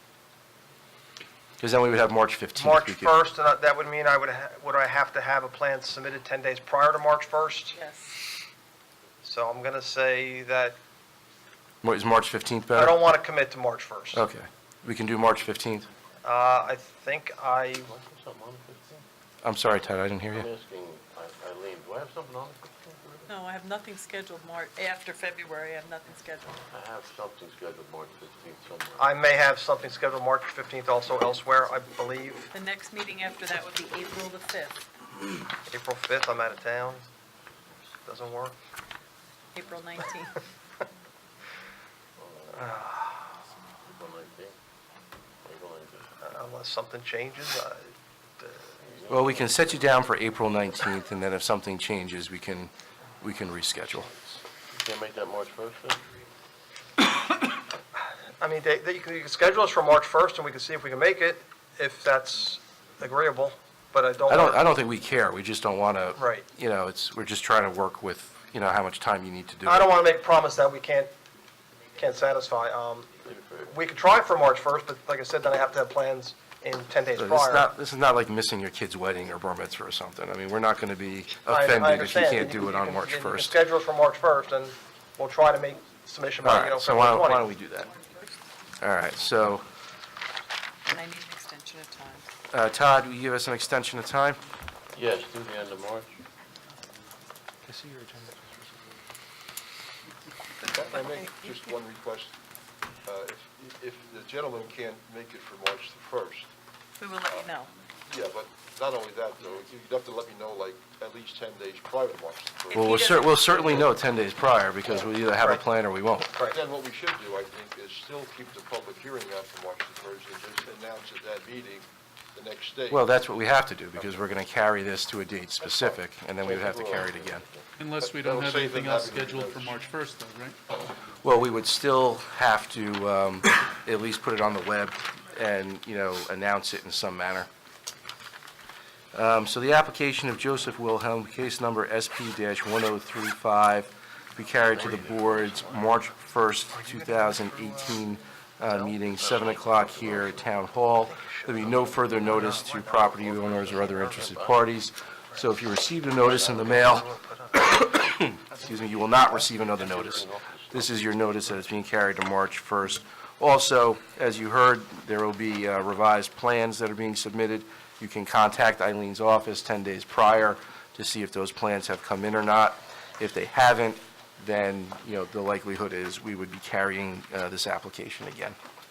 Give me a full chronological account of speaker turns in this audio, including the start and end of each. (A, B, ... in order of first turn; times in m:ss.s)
0:01.6-0:03.1 A
0:02.5-0:07.8 B
0:07.7-0:08.2 C
0:09.2-0:10.8 B
0:11.8-0:13.0 A
0:12.7-0:14.2 B
0:14.1-0:15.9 A
0:16.2-0:17.9 B
0:17.9-0:19.0 D
0:19.4-0:20.5 A
0:20.3-0:23.3 D
0:23.3-0:26.5 C
0:26.5-0:29.0 D
0:29.0-0:32.5 B
0:32.5-0:34.8 C
0:35.6-0:37.1 B
0:38.0-0:38.5 B
0:39.5-0:40.4 C
0:42.2-0:42.6 D
0:42.5-0:43.2 B
0:43.8-0:44.5 D
0:45.4-0:46.1 D
0:46.2-0:48.7 B
0:48.8-0:49.9 D
0:49.1-0:54.2 A
0:54.7-0:56.0 D
0:58.4-1:04.7 B
1:04.3-1:09.9 A
1:06.1-1:06.4 B
1:09.6-1:11.1 B
1:12.0-1:13.1 B
1:13.2-1:13.7 D
1:13.6-1:17.7 B
1:17.2-1:23.6 A
1:21.5-1:27.5 B
1:26.4-1:27.9 A
1:27.9-1:28.3 C
1:28.8-1:29.6 A
1:30.8-1:32.3 C
1:32.5-1:34.4 A
1:34.9-1:36.2 D
1:37.7-1:38.4 B
1:40.6-1:42.3 E
1:43.0-1:46.5 E
1:47.0-1:47.7 C
1:48.1-1:53.6 E
1:52.7-1:56.3 A
1:52.8-1:53.9 D
1:52.9-1:53.2 C
1:56.4-2:03.1 E
2:02.9-2:07.4 A
2:05.6-2:05.9 D
2:06.4-2:07.6 D
2:07.8-2:10.6 F
2:08.0-2:09.8 E
2:11.2-2:17.5 A
2:19.1-2:37.1 A
2:24.7-2:25.9 D
2:26.7-2:28.0 B
2:29.2-2:30.4 D
2:31.5-2:34.3 B
2:34.0-2:34.6 D
2:36.3-2:36.8 D
2:36.8-2:37.7 B
2:37.6-2:58.6 A
2:39.7-2:40.8 D